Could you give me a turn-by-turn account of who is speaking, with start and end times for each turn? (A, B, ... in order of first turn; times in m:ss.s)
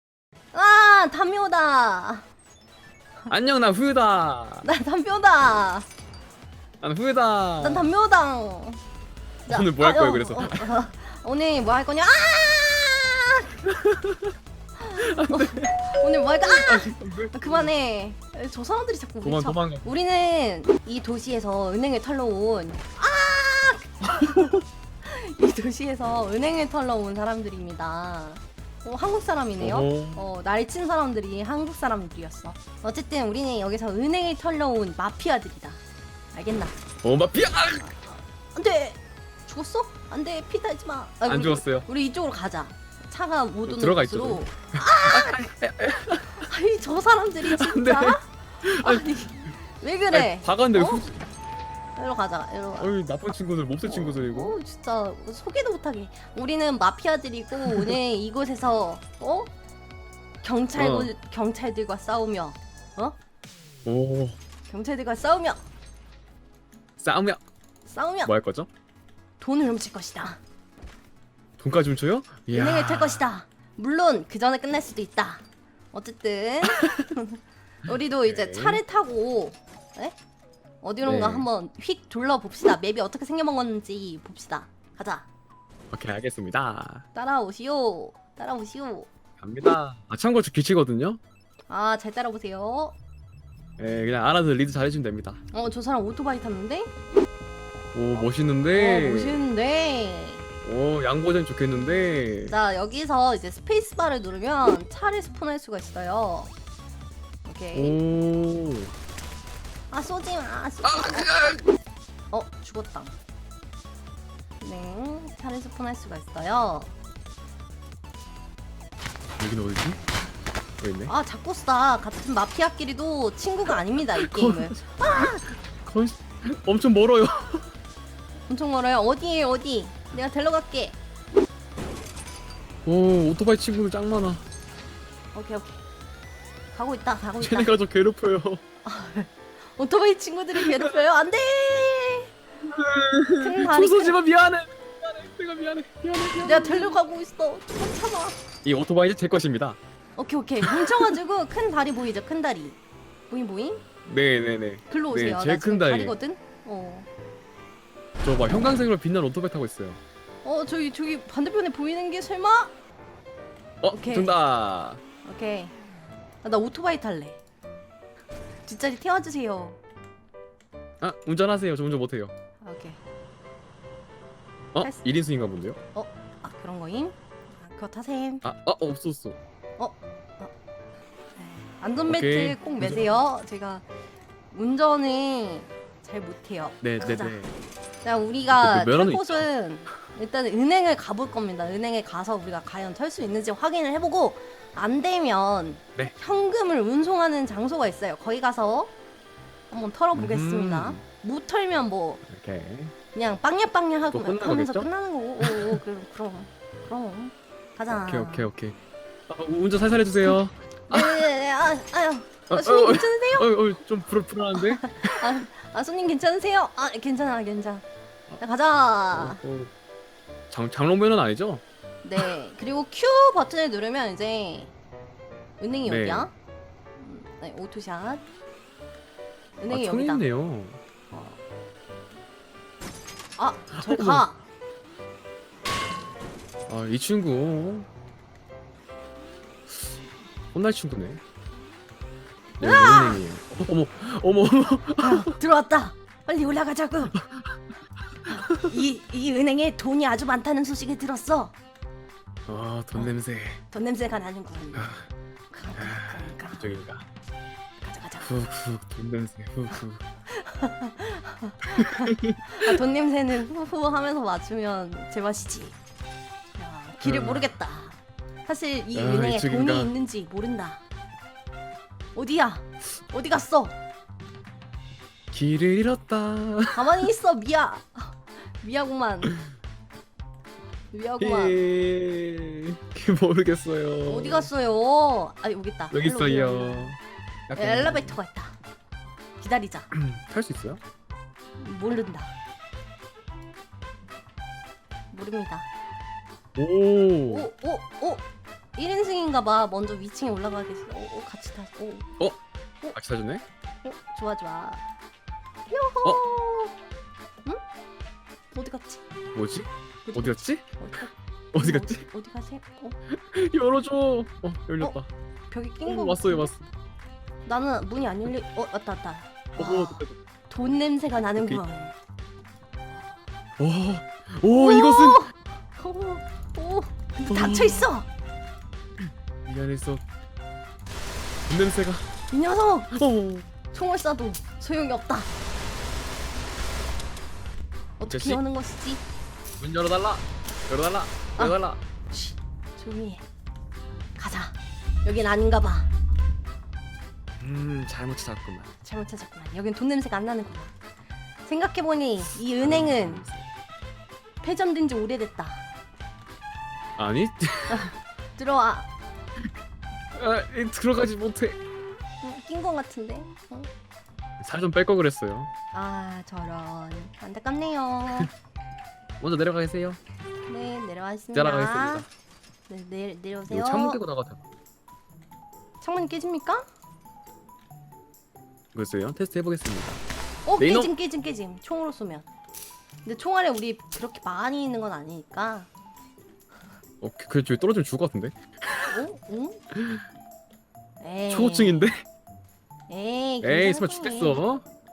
0:00.5-0:02.2 A
0:03.3-0:04.7 B
0:04.6-0:05.9 A
0:06.8-0:07.9 B
0:07.6-0:08.8 A
0:09.5-0:10.7 B
0:09.5-0:13.5 A
0:13.6-0:14.3 B
0:14.8-0:24.5 A
0:15.0-0:17.7 B
0:19.2-0:19.8 B
0:24.0-0:24.6 B
0:25.0-0:35.8 A
0:29.6-0:30.2 B
0:36.3-0:36.7 A
0:37.0-0:37.9 B
0:37.9-0:45.5 A
0:41.2-0:41.9 B
0:43.7-0:44.4 B
0:45.0-0:46.5 B
0:46.4-0:51.0 A
0:47.4-0:49.5 B
0:50.1-0:51.2 B
0:52.0-0:52.9 A
0:52.8-0:54.6 B
0:53.8-0:59.5 A
0:57.7-0:57.9 B
1:00.4-1:03.2 A
1:00.7-1:01.1 B
1:03.8-1:04.4 B
1:04.7-1:05.6 A
1:07.0-1:07.4 B
1:07.8-1:08.3 A
1:08.2-1:08.7 B
1:09.4-1:10.4 A
1:11.6-1:13.2 B
1:12.5-1:20.2 A
1:18.2-1:18.8 B
1:20.8-1:25.3 A
1:21.0-1:21.5 B
1:25.9-1:27.0 B
1:27.1-1:29.1 A
1:29.4-1:31.2 B
1:31.7-1:32.9 A
1:33.8-1:35.4 B
1:35.5-1:36.9 A
1:37.9-1:39.4 B
1:38.7-1:40.5 A
1:40.6-1:42.6 B
1:42.5-1:46.5 A
1:47.4-1:48.0 A
1:47.7-1:48.9 B
1:49.9-1:51.3 A
1:50.8-1:51.6 B
1:52.3-1:53.1 A
1:54.6-1:56.9 A
1:59.4-2:00.0 B
2:00.8-2:01.1 B
2:01.1-2:05.4 A
2:04.2-2:07.7 B
2:08.5-2:11.0 A
2:12.8-2:14.4 B
2:15.3-2:15.8 A
2:16.7-2:17.7 A
2:17.4-2:18.6 B
2:18.8-2:22.3 A
2:20.6-2:20.9 B
2:22.6-2:27.0 B
2:23.4-2:24.2 A
2:26.4-2:28.4 A
2:28.6-2:29.8 B
2:30.2-2:32.8 A
2:30.6-2:31.2 B
2:33.3-2:33.8 A
2:34.0-2:36.2 B
2:34.9-2:37.1 A
2:38.2-2:40.0 B
2:40.4-2:42.7 A
2:43.8-2:45.0 B
2:44.0-2:44.3 A
2:45.2-2:45.8 A
2:46.4-2:47.4 A
2:48.6-2:49.8 A
2:51.0-2:52.3 B
2:52.6-2:53.0 A
2:54.7-2:55.8 B
2:55.9-2:58.4 A
2:58.4-2:59.4 B
2:59.8-3:00.5 A
3:01.4-3:03.8 A
3:02.0-3:03.1 B
3:04.5-3:07.4 A
3:06.8-3:07.5 B
3:08.0-3:18.9 A
3:08.5-3:09.5 B
3:19.7-3:22.2 A
3:20.1-3:21.0 B
3:22.3-3:22.9 B
3:23.1-3:28.5 A
3:24.1-3:24.9 B
3:25.4-3:25.8 B
3:28.0-3:28.8 B
3:29.3-3:31.3 B
3:30.9-3:33.5 A
3:32.5-3:35.4 B
3:34.6-3:37.8 A
3:38.4-3:39.4 A
3:39.1-3:39.7 B
3:40.5-3:41.6 B
3:42.0-3:44.7 A
3:45.6-3:46.3 A
3:45.8-3:46.3 B
3:47.0-3:48.2 A
3:49.6-3:50.2 A
3:49.7-3:50.8 B
3:51.1-3:51.4 A
3:53.4-3:54.4 A
3:53.7-3:54.2 B
3:56.7-3:57.9 B
4:00.5-4:01.2 B
4:02.6-4:05.3 B
4:02.6-4:03.2 A
4:05.0-4:07.2 A
4:07.2-4:07.5 B
4:08.2-4:11.5 A
4:08.3-4:08.6 B
4:12.5-4:13.6 B
4:13.7-4:14.9 A
4:14.7-4:15.1 B
4:15.5-4:16.7 A
4:15.8-4:17.1 B
4:17.8-4:18.3 A
4:18.2-4:20.0 B
4:20.3-4:25.8 A
4:21.7-4:22.8 B
4:26.6-4:30.8 A
4:27.0-4:27.5 B
4:28.9-4:29.9 B
4:32.1-4:33.8 A
4:35.3-4:37.1 B
4:36.7-4:39.4 A
4:40.9-4:41.6 A
4:41.2-4:44.5 B
4:44.1-4:46.9 A
4:45.9-4:48.2 B
4:47.5-4:48.6 A
4:49.4-4:49.9 A
4:49.9-4:50.8 B
4:51.6-4:52.3 A
4:55.1-4:55.6 A
4:56.6-4:57.5 B
4:57.3-5:02.1 A
5:02.9-5:03.4 B
5:03.8-5:04.8 A
5:05.7-5:06.7 A
5:08.5-5:09.0 A
5:09.3-5:10.6 B
5:10.0-5:13.0 A
5:11.5-5:12.0 B
5:13.1-5:15.1 B
5:15.5-5:16.5 A
5:15.8-5:16.6 B
5:17.4-5:22.0 A
5:19.6-5:20.2 B
5:21.4-5:21.6 B
5:23.6-5:25.3 B
5:24.5-5:28.1 A
5:27.3-5:27.9 B
5:29.4-5:30.0 B
5:31.5-5:32.1 B
5:32.3-5:32.9 A
5:32.9-5:33.5 B
5:33.7-5:35.3 A
5:38.0-5:39.0 A
5:38.1-5:38.4 B
5:39.6-5:41.8 B
5:42.1-5:43.2 A
5:44.2-5:45.9 A
5:47.4-5:48.7 B
5:48.8-5:50.7 A
5:51.4-5:53.2 A
5:52.6-5:53.5 B
5:54.4-5:55.6 A
5:57.0-5:57.9 B
5:57.7-5:58.9 A
6:00.1-6:01.6 B
6:02.2-6:03.7 A
6:04.4-6:05.5 B
6:05.7-6:08.3 A
6:09.2-6:10.0 B
6:10.5-6:12.0 A
6:11.3-6:12.1 B
6:12.7-6:14.0 A
6:13.5-6:14.4 B
6:15.8-6:16.7 A
6:18.7-6:20.0 B
6:20.4-6:22.3 A
6:20.6-6:20.9 B
6:23.0-6:25.7 A
6:27.0-6:28.8 B
6:28.8-6:29.6 A
6:29.7-6:30.0 B
6:31.0-6:31.9 A
6:31.3-6:32.0 B
6:32.9-6:34.4 A
6:33.4-6:34.6 B